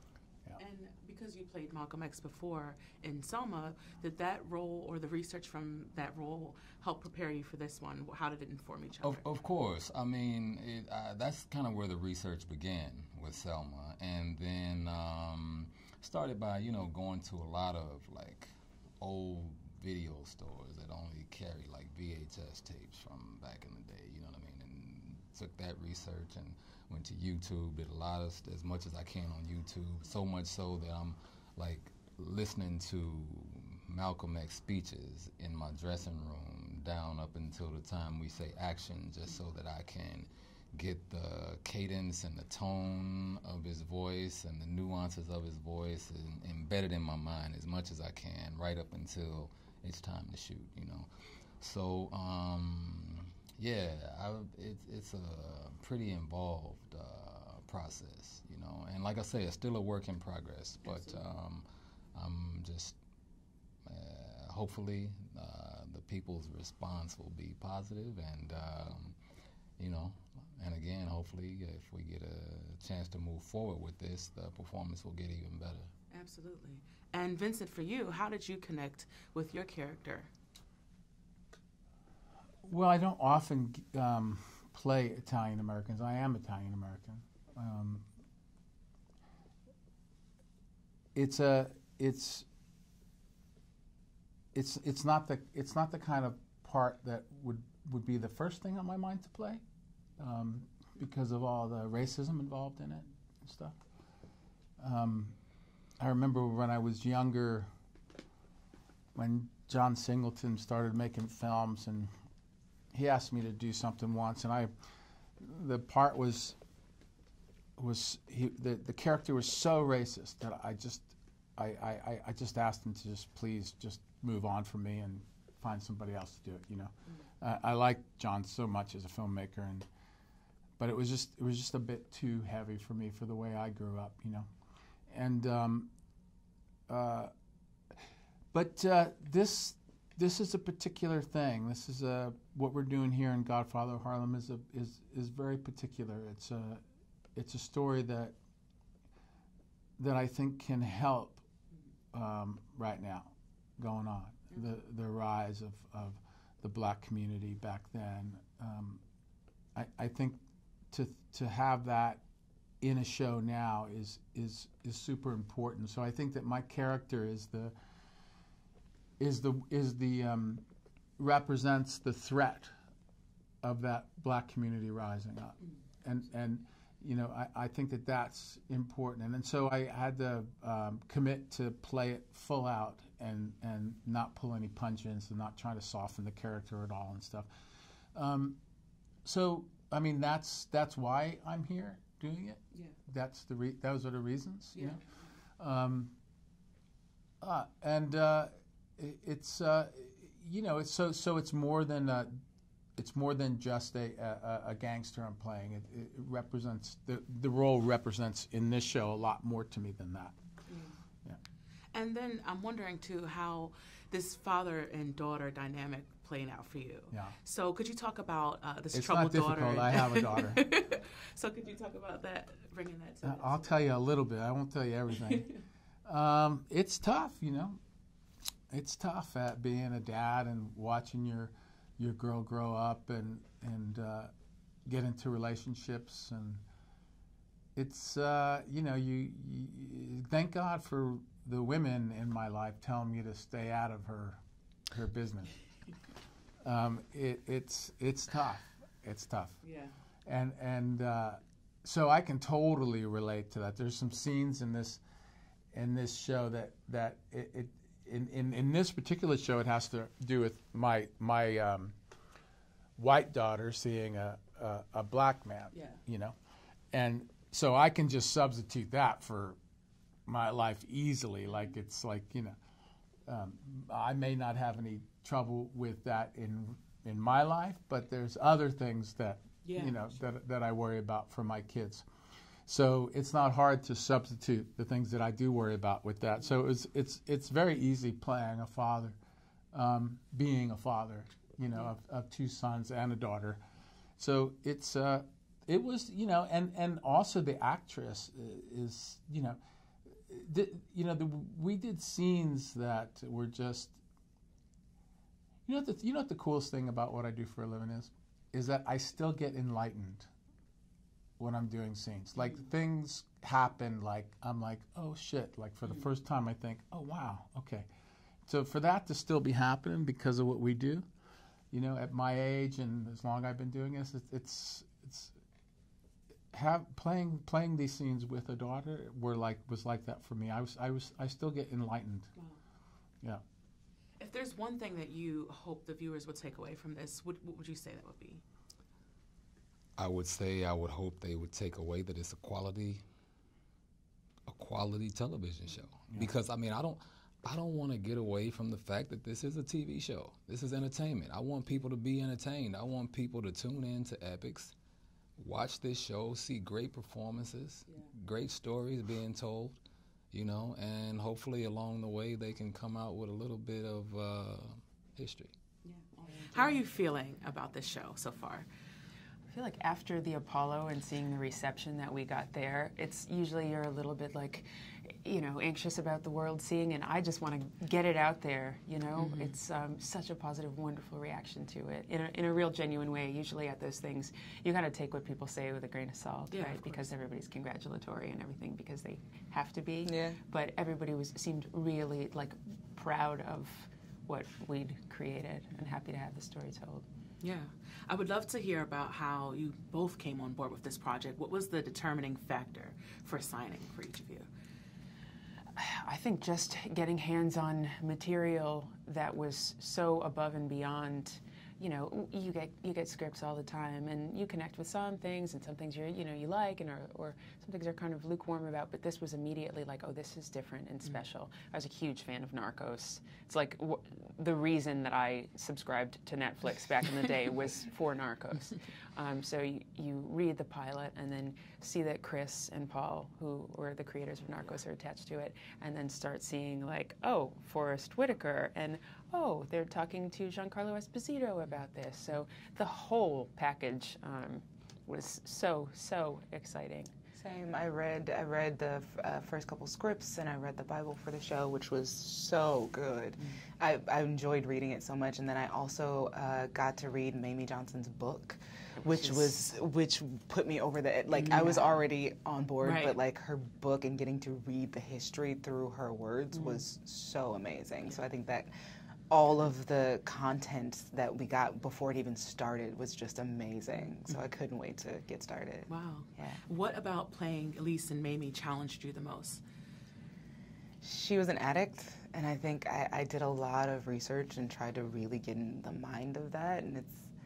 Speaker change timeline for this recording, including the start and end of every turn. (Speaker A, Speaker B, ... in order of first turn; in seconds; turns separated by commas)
Speaker A: 0.6-9.3, Speaker B: 9.0-18.5, Speaker B: 19.0-51.1, Speaker B: 51.6-63.0, Speaker A: 60.8-61.2, Speaker B: 63.9-69.2, Speaker B: 69.8-75.9, Speaker A: 76.1-80.3, Speaker C: 82.6-88.1, Speaker C: 91.2-92.5, Speaker C: 94.5-99.6, Speaker C: 100.2-103.8, Speaker C: 104.8-105.4, Speaker C: 106.0-107.7, Speaker C: 109.2-112.1, Speaker C: 112.9-114.7, Speaker C: 115.4-116.6, Speaker C: 117.8-129.9, Speaker C: 130.8-134.5, Speaker C: 135.1-135.9, Speaker C: 136.9-137.3, Speaker C: 138.5-146.8, Speaker C: 147.3-148.4, Speaker C: 150.0-151.4, Speaker C: 152.1-159.0, Speaker C: 159.8-162.2, Speaker C: 162.8-167.7, Speaker C: 169.2-170.6, Speaker C: 171.2-172.7, Speaker C: 173.6-187.5, Speaker C: 188.1-188.6, Speaker C: 189.2-195.0, Speaker C: 195.6-196.1, Speaker C: 197.4-202.4, Speaker C: 203.0-210.4, Speaker A: 211.9-223.8, Speaker C: 217.1-217.4, Speaker C: 218.9-220.7, Speaker C: 223.2-225.5, Speaker C: 226.1-227.8, Speaker C: 228.7-234.3, Speaker C: 234.9-236.6, Speaker C: 237.8-244.4, Speaker C: 244.9-245.5, Speaker C: 246.6-249.6, Speaker A: 249.6-249.9, Speaker C: 250.3-255.0, Speaker C: 255.7-261.9, Speaker C: 263.0-266.4, Speaker A: 265.7-266.0, Speaker C: 266.9-269.6, Speaker C: 270.3-272.6, Speaker C: 273.3-282.1, Speaker A: 279.6-280.1, Speaker C: 282.7-289.2, Speaker C: 289.7-293.6, Speaker C: 294.2-299.6, Speaker C: 300.3-304.0, Speaker C: 305.7-310.3, Speaker C: 311.4-317.9, Speaker C: 318.5-321.1, Speaker C: 321.7-325.3, Speaker C: 326.5-332.3, Speaker A: 334.2-338.4, Speaker B: 340.0-343.0, Speaker B: 344.5-354.7, Speaker B: 355.4-359.8, Speaker B: 360.3-365.5, Speaker A: 365.9-368.7, Speaker D: 366.3-366.8, Speaker D: 369.5-397.1, Speaker A: 379.1-379.6, Speaker A: 386.5-387.1, Speaker E: 390.1-390.4, Speaker A: 397.4-404.5, Speaker D: 405.8-447.1, Speaker E: 447.3-468.7, Speaker D: 459.1-459.4, Speaker A: 461.3-462.0, Speaker A: 462.8-463.2, Speaker E: 469.3-476.6, Speaker A: 475.9-479.6, Speaker E: 481.0-487.3